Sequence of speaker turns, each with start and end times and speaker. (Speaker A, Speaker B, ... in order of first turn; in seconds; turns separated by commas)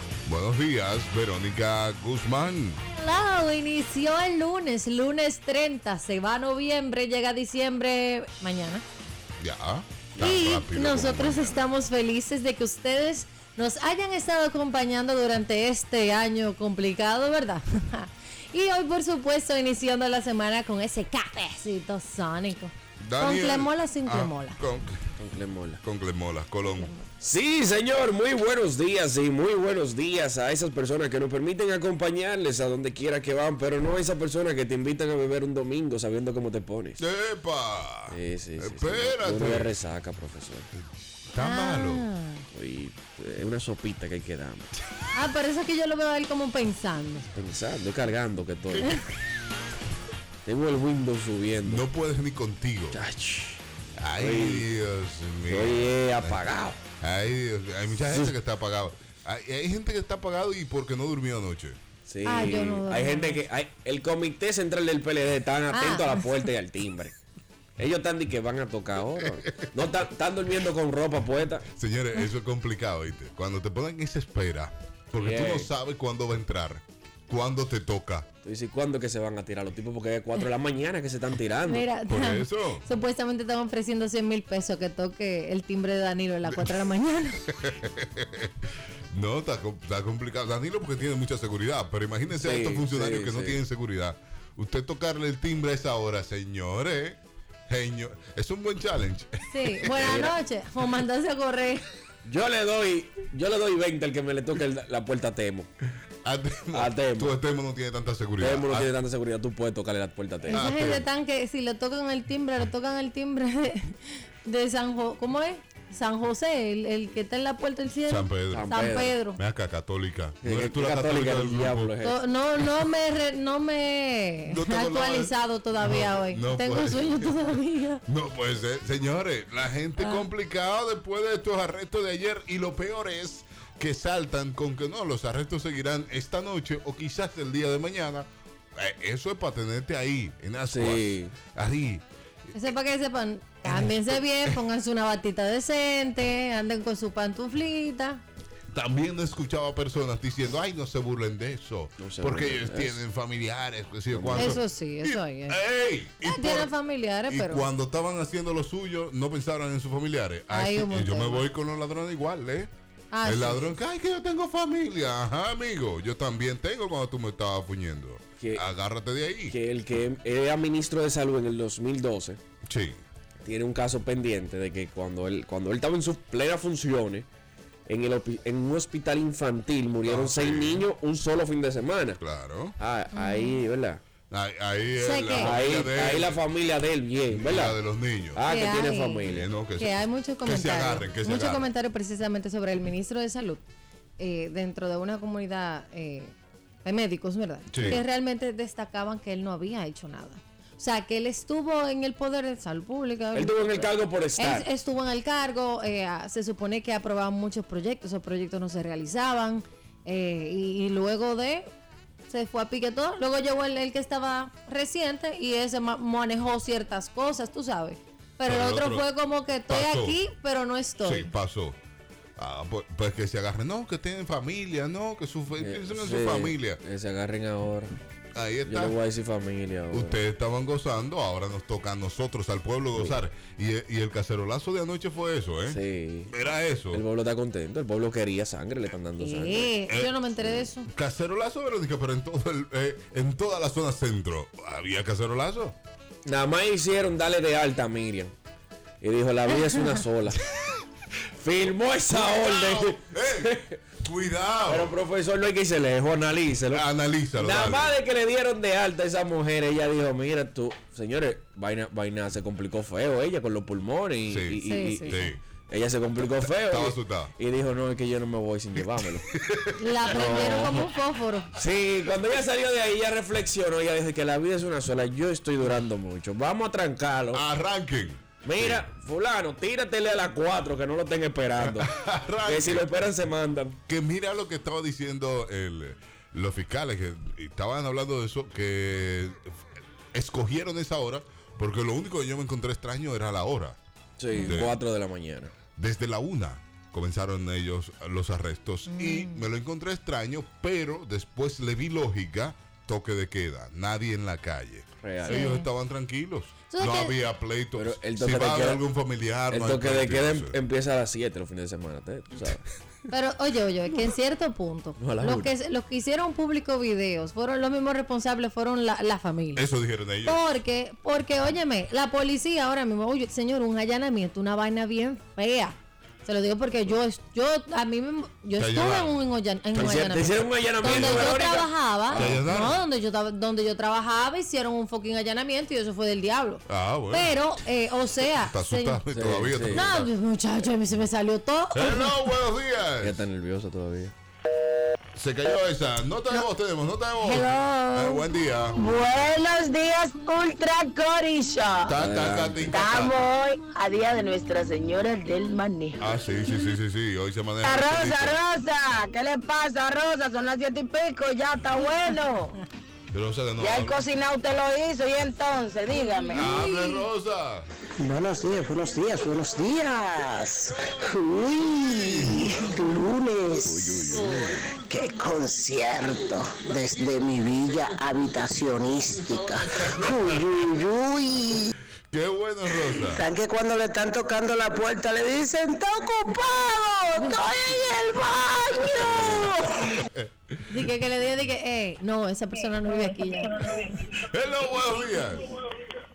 Speaker A: 0.3-2.8, Speaker B: 2.9-8.8, Speaker A: 9.4-11.6, Speaker B: 10.2-24.6, Speaker A: 23.0-25.0, Speaker C: 25.2-25.8, Speaker A: 25.8-26.9, Speaker B: 26.8-27.1, Speaker C: 27.2-37.0, Speaker A: 37.0-39.8, Speaker C: 38.1-40.7, Speaker A: 41.3-42.1, Speaker B: 41.4-42.5, Speaker C: 42.5-44.7, Speaker B: 45.1-47.3, Speaker C: 47.3-48.9, Speaker A: 48.7-49.0, Speaker C: 50.5-51.8, Speaker A: 51.6-53.0, Speaker C: 52.9-53.6, Speaker A: 54.0-56.5, Speaker C: 54.2-54.7, Speaker C: 55.5-56.8, Speaker A: 57.0-61.8, Speaker C: 58.1-58.4, Speaker C: 62.1-67.2, Speaker B: 62.2-63.4, Speaker B: 65.7-66.5, Speaker C: 67.8-71.7, Speaker A: 71.7-78.3, Speaker C: 75.2-75.7, Speaker C: 78.4-81.9, Speaker B: 81.7-87.4, Speaker A: 82.1-82.8, Speaker A: 87.5-88.5, Speaker A: 89.1-100.2, Speaker C: 92.4-93.7, Speaker B: 99.5-101.8, Speaker C: 100.0-100.4, Speaker C: 102.3-105.7, Speaker A: 106.2-108.9, Speaker C: 106.7-107.4, Speaker C: 108.4-110.7, Speaker B: 110.5-119.4, Speaker A: 110.5-111.1, Speaker A: 118.0-118.8, Speaker C: 118.5-119.2, Speaker A: 119.3-121.9, Speaker C: 120.4-122.2, Speaker B: 122.0-128.0, Speaker A: 124.5-127.5, Speaker A: 128.1-142.6, Speaker B: 130.0-130.3, Speaker C: 140.7-141.3, Speaker B: 142.6-148.2, Speaker A: 143.7-144.6, Speaker A: 148.7-156.7, Speaker C: 152.0-153.0, Speaker C: 154.1-154.6, Speaker B: 154.3-155.6, Speaker B: 156.2-157.7, Speaker A: 157.3-162.7, Speaker B: 160.5-161.5, Speaker B: 163.1-163.7, Speaker A: 163.2-169.6, Speaker C: 168.4-168.7, Speaker C: 169.5-172.4, Speaker A: 172.7-173.0, Speaker C: 173.4-177.3, Speaker C: 177.9-182.2, Speaker A: 180.0-180.9, Speaker A: 182.2-182.8, Speaker C: 182.8-184.0, Speaker B: 183.1-183.6, Speaker A: 184.3-186.4, Speaker B: 185.0-185.6, Speaker C: 185.3-187.8, Speaker A: 187.3-188.4, Speaker C: 188.3-189.5, Speaker B: 188.4-193.6, Speaker A: 189.3-191.7, Speaker B: 194.2-211.7, Speaker A: 197.7-198.0, Speaker C: 203.3-204.7, Speaker B: 212.3-221.3, Speaker A: 218.5-219.1, Speaker A: 219.7-220.2, Speaker A: 221.0-221.8, Speaker A: 222.4-226.8, Speaker C: 225.6-228.0, Speaker A: 228.3-229.0, Speaker C: 228.7-230.2, Speaker A: 229.9-237.0, Speaker C: 233.0-233.2, Speaker C: 235.7-236.3, Speaker C: 236.9-239.7, Speaker B: 239.2-240.9, Speaker A: 239.9-245.8, Speaker C: 246.3-248.3, Speaker C: 249.0-250.5, Speaker C: 251.3-253.8, Speaker A: 252.1-255.0, Speaker C: 254.7-269.3, Speaker A: 256.7-258.0, Speaker A: 264.3-265.4, Speaker B: 264.6-265.2, Speaker A: 266.4-267.3, Speaker A: 269.0-270.6, Speaker B: 269.8-271.5, Speaker C: 270.1-270.9, Speaker C: 271.6-277.4, Speaker A: 277.3-278.9, Speaker C: 278.4-281.9, Speaker A: 281.6-282.9, Speaker C: 282.4-283.8, Speaker A: 283.9-289.6, Speaker A: 290.1-293.8, Speaker C: 294.2-295.5, Speaker A: 294.4-294.8, Speaker A: 295.8-310.6, Speaker B: 298.9-299.5, Speaker C: 305.0-305.5, Speaker B: 305.3-305.7, Speaker B: 306.7-307.1, Speaker C: 307.8-308.9, Speaker C: 309.5-312.7, Speaker B: 313.1-319.7, Speaker C: 315.0-315.5, Speaker A: 319.6-320.4, Speaker B: 320.2-339.0, Speaker A: 328.6-329.2, Speaker C: 329.7-332.7, Speaker A: 330.8-331.3, Speaker A: 332.1-332.8, Speaker A: 336.7-337.4, Speaker A: 338.3-340.1, Speaker C: 339.1-339.9, Speaker B: 339.7-342.4, Speaker A: 341.7-343.2, Speaker C: 343.0-344.1, Speaker A: 345.1-348.9, Speaker D: 347.2-348.1, Speaker D: 348.8-351.9, Speaker A: 351.8-353.2, Speaker C: 351.9-352.8, Speaker D: 352.7-356.1, Speaker A: 356.0-358.4, Speaker D: 357.6-362.6, Speaker A: 363.1-364.1, Speaker D: 363.6-366.7, Speaker B: 365.9-367.1, Speaker A: 366.4-367.7, Speaker E: 368.0-381.8, Speaker A: 372.0-372.5, Speaker C: 373.7-374.5, Speaker A: 382.1-383.2, Speaker E: 382.9-389.9, Speaker D: 388.9-389.4, Speaker A: 389.8-390.2, Speaker B: 390.7-393.7, Speaker D: 393.4-393.9, Speaker A: 393.9-395.5